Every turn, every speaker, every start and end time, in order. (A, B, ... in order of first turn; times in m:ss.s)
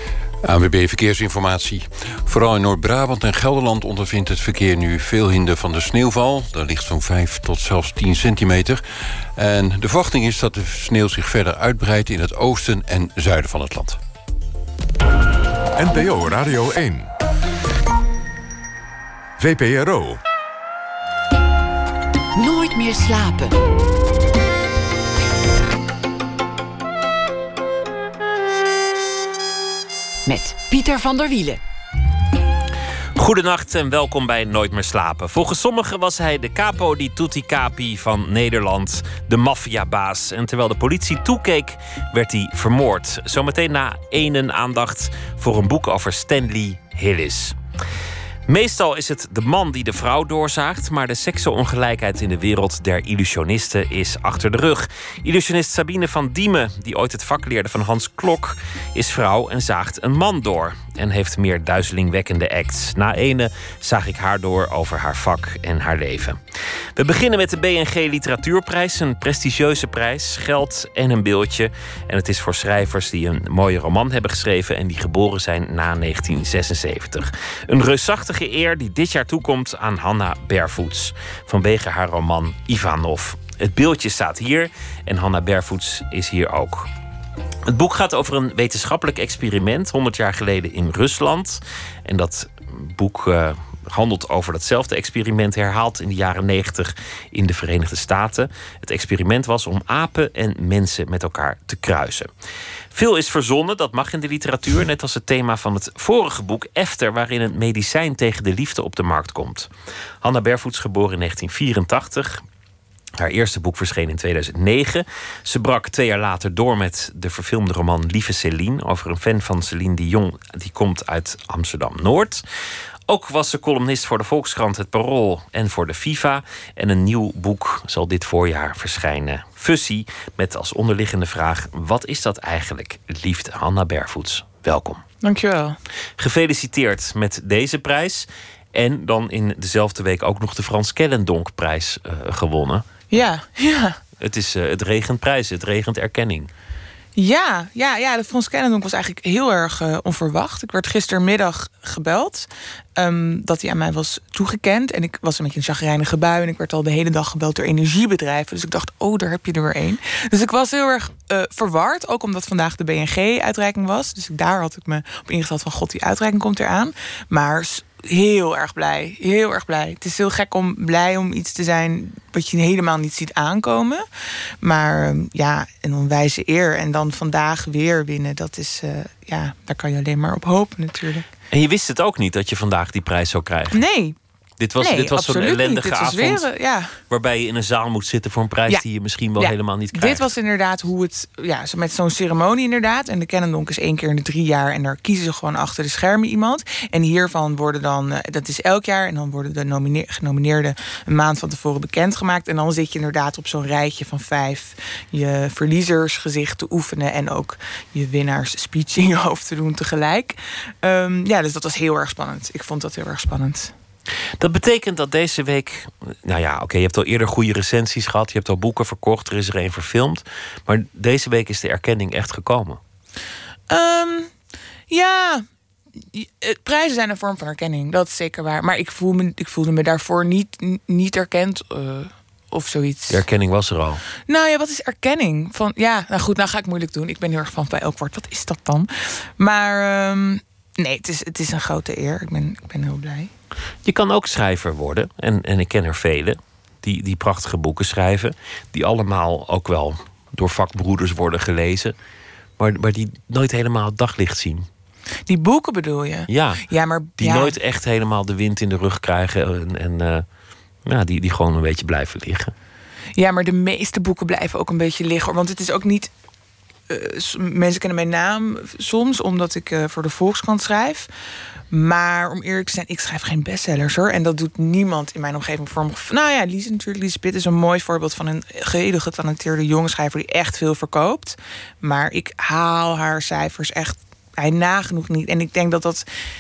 0:00.4-0:14.0 A
0:15.8-0:17.0 B
0:19.4-0:20.2 B
0:22.4-0:23.6 C
0:30.2-0:31.6 C
0:33.2-0:47.6 D
0:48.5-1:06.4 D
1:07.0-1:26.9 D
1:27.7-1:42.3 D
1:42.9-1:49.7 D
1:50.2-1:52.4 D
1:53.2-2:02.4 D
2:03.1-2:15.0 D
2:15.2-2:15.8 E
2:16.2-2:23.0 D
2:23.1-2:24.0 E
2:24.2-2:26.5 D
2:27.2-2:54.1 E
2:54.6-3:01.3 E
3:01.5-3:03.8 D
3:03.7-3:04.2 E
3:04.6-3:06.5 D
3:04.8-3:07.0 E
3:07.1-3:10.3 D
3:09.4-3:33.7 E
3:34.4-3:42.8 D
3:43.7-3:44.3 E
3:44.9-3:45.4 E
3:46.1-3:53.2 E
3:53.1-3:54.0 D
3:54.2-4:03.3 E
4:03.8-4:11.9 D
4:12.6-4:14.7 D
4:15.3-4:17.6 E
4:16.3-4:16.6 D
4:17.2-4:20.2 D
4:20.9-4:22.5 D
4:23.2-4:26.1 E
4:26.9-4:31.1 E
4:31.7-4:46.0 E